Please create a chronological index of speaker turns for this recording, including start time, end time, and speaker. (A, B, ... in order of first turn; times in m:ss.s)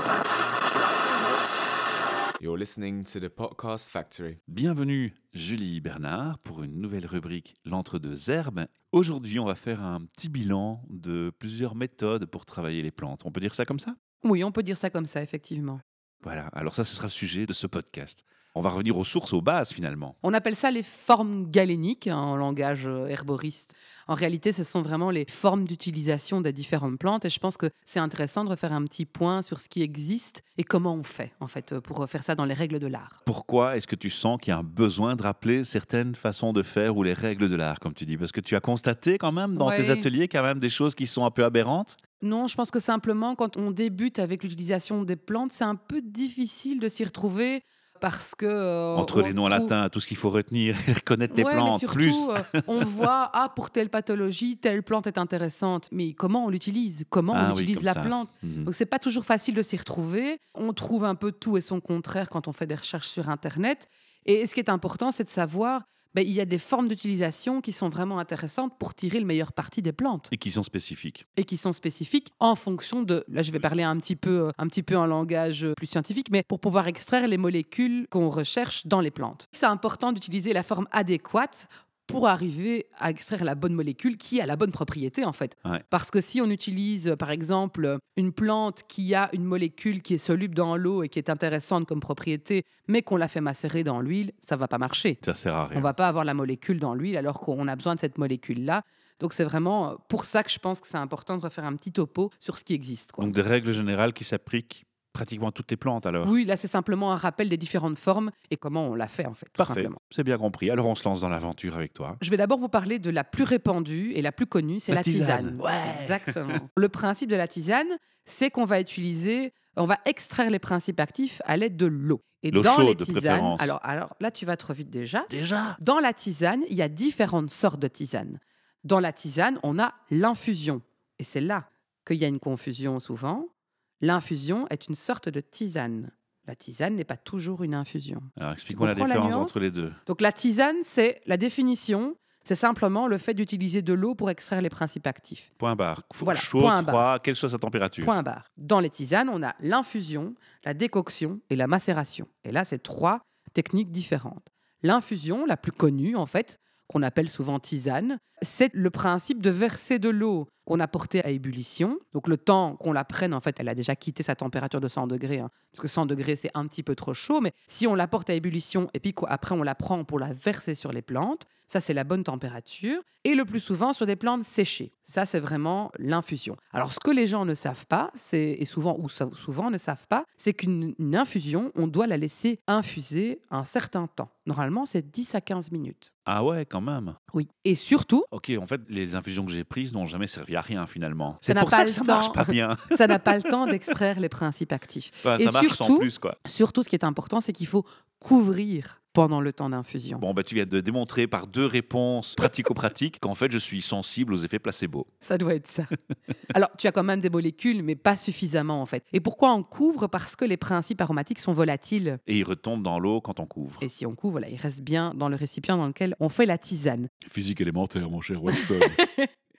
0:02.4-0:04.4 A
0:04.5-0:14.0 B
0:14.2-0:15.8 C
0:16.2-0:20.2 B
0:20.2-0:33.2 C
0:33.2-0:42.0 B
0:39.6-0:40.1 C
0:42.2-0:49.7 C
0:48.9-0:52.6 B
0:51.3-1:10.3 C
0:57.3-0:58.7 B
1:10.3-1:11.2 B
1:11.4-1:35.2 C
1:35.2-1:35.9 B
1:35.7-1:43.4 C
1:43.2-1:46.3 B
1:46.2-1:50.0 C
1:49.6-1:52.2 B
1:52.2-2:13.5 C
1:54.9-1:56.6 B
2:02.5-2:03.7 B
2:05.3-2:05.8 B
2:14.0-2:25.5 C
2:18.4-2:20.0 B
2:25.6-2:28.2 B
2:26.2-2:27.1 C
2:28.0-3:06.1 C
3:06.3-3:07.2 B
3:07.3-3:08.3 C
3:08.3-3:13.2 B
3:11.5-3:20.2 C
3:15.2-3:16.4 B
3:20.2-3:25.1 B
3:25.2-3:25.9 C
3:26.5-3:32.2 C
3:32.3-3:33.9 B
3:33.8-3:37.1 C
3:37.2-3:39.0 B
3:38.5-3:39.3 C